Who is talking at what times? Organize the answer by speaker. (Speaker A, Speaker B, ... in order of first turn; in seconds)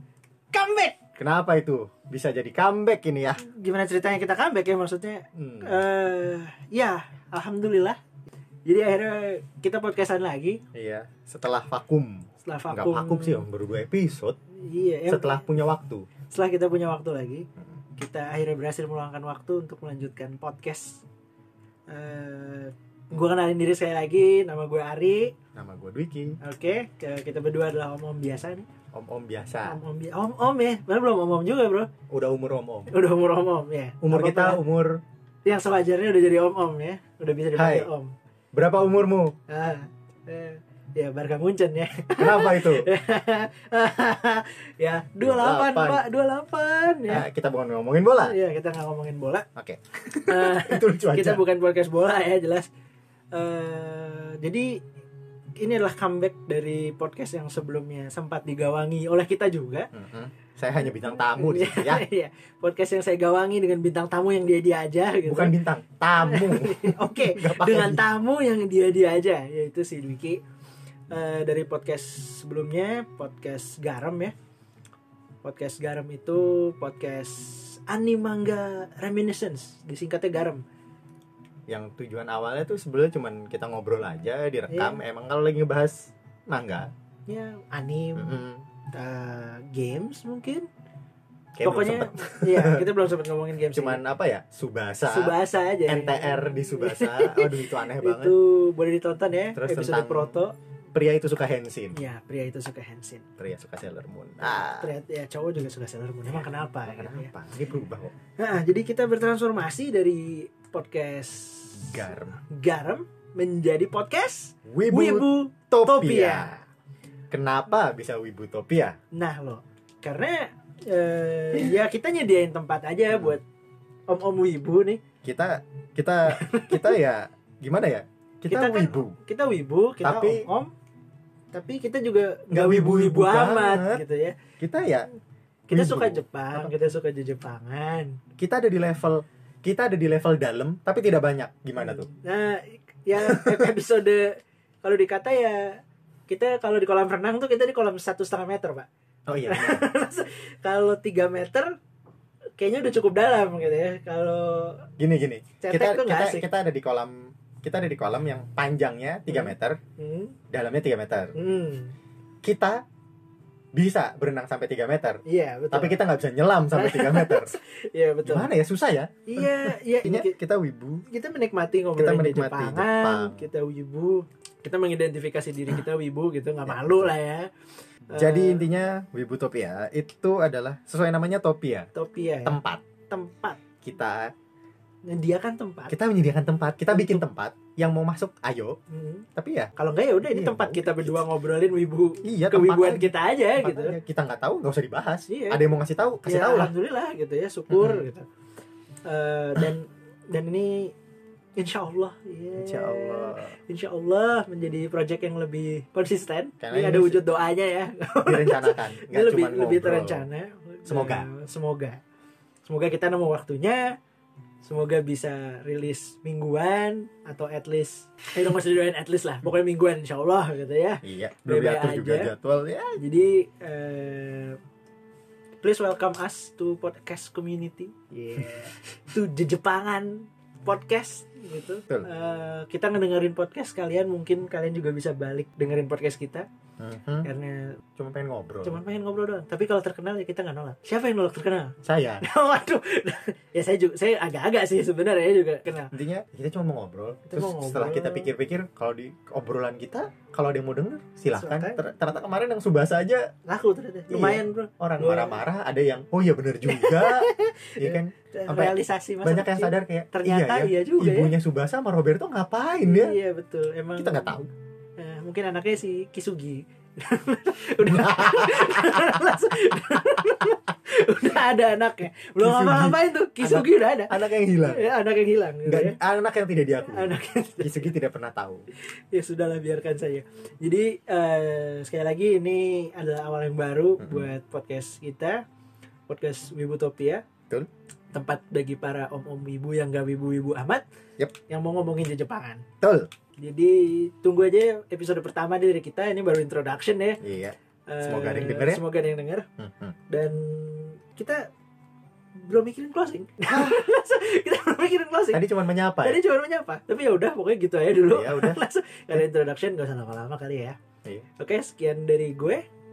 Speaker A: 0.5-0.9, 3.4-8.0, 8.7-10.6, 12.4-13.5, 14.6-15.4, 16.3-21.0, 21.9-25.3, 26.4-28.7, 29.6-31.9, 32.9-34.6, 35.5-38.1, 39.5-47.3, 48.2-49.5, 50.1-52.7, 53.3-54.8, 55.6-59.9, 60.9-65.6, 66.2-70.4, 71.1-74.3, 75.4-80.6, 84.7-85.0, 87.3-88.4, 88.9-90.7, 91.6-94.0, 95.1-100.5, 101.9-103.2, 104.5-107.3, 108.4-116.7, 119.1-123.4, 124.1-125.0, 126.3-127.0, 128.5-130.7, 131.5-134.4, 135.7-138.2, 141.8-148.9, 149.5-151.8, 152.6-154.9, 155.6-156.5, 159.3-160.4, 161.3-161.9, 165.3-166.0, 166.7-168.5, 169.3-170.4, 171.1-177.5, 178.1-178.7, 181.9-183.6, 185.1-185.9, 186.9-187.2, 188.9-194.0, 195.3-195.6, 196.2-198.3, 199.1-200.9, 201.6-212.0, 212.7-213.9, 214.6-222.3, 223.0-224.6, 225.6-236.5, 237.2-237.8, 238.6-245.9, 247.3-248.3, 251.3-251.8, 253.5-255.4, 256.7-261.3, 262.8-264.4, 265.0-276.0, 276.9-277.9, 279.1-285.4, 286.1-287.2, 288.1-290.8, 291.5-292.6, 293.4-297.2, 297.9-299.5, 300.1-301.5, 302.4-310.8, 311.4-312.6
Speaker B: 1.2-3.4, 5.3-5.8, 10.7-14.4, 15.1-16.1, 25.6-26.4, 28.9-29.8, 32.1-33.0, 34.0-35.0, 37.5-37.9, 38.5-39.4, 42.2-42.9, 45.2-46.0, 47.1-48.4, 49.6-51.4, 59.9-62.0, 65.2-68.0, 81.7-86.9, 88.2-88.7, 91.6-92.9, 93.7-95.4, 95.9-98.3, 99.5-100.4, 100.9-102.0, 103.4-104.9, 106.4-108.1, 111.8-112.4, 114.7-116.6, 117.3-119.0, 125.2-129.2, 130.0-130.4, 132.5-134.0, 134.6-135.1, 135.7-136.7, 138.4-142.1, 143.2-143.7, 149.3-149.9, 155.0-159.8, 160.5-161.3, 162.4-162.8, 163.7-167.5, 168.2-171.0, 172.0-173.5, 176.7-177.1, 178.1-181.9, 182.4-182.8, 183.8-184.3, 185.9-188.8, 189.4-189.7, 190.3-191.2, 192.2-196.7, 197.7-198.1, 202.6-203.6, 206.6-207.2, 208.2-210.3, 210.9-211.3, 221.0-223.0, 236.8-237.3, 238.0-238.8, 241.8-242.2, 245.9-253.3, 254.1-257.3, 257.8-263.1, 264.0-264.5, 267.9-269.2, 272.4-274.9, 275.7-278.7, 284.0-284.3, 292.8-293.1, 297.2-298.8, 299.6-300.0, 303.5-303.8, 305.3-306.2, 308.0-308.6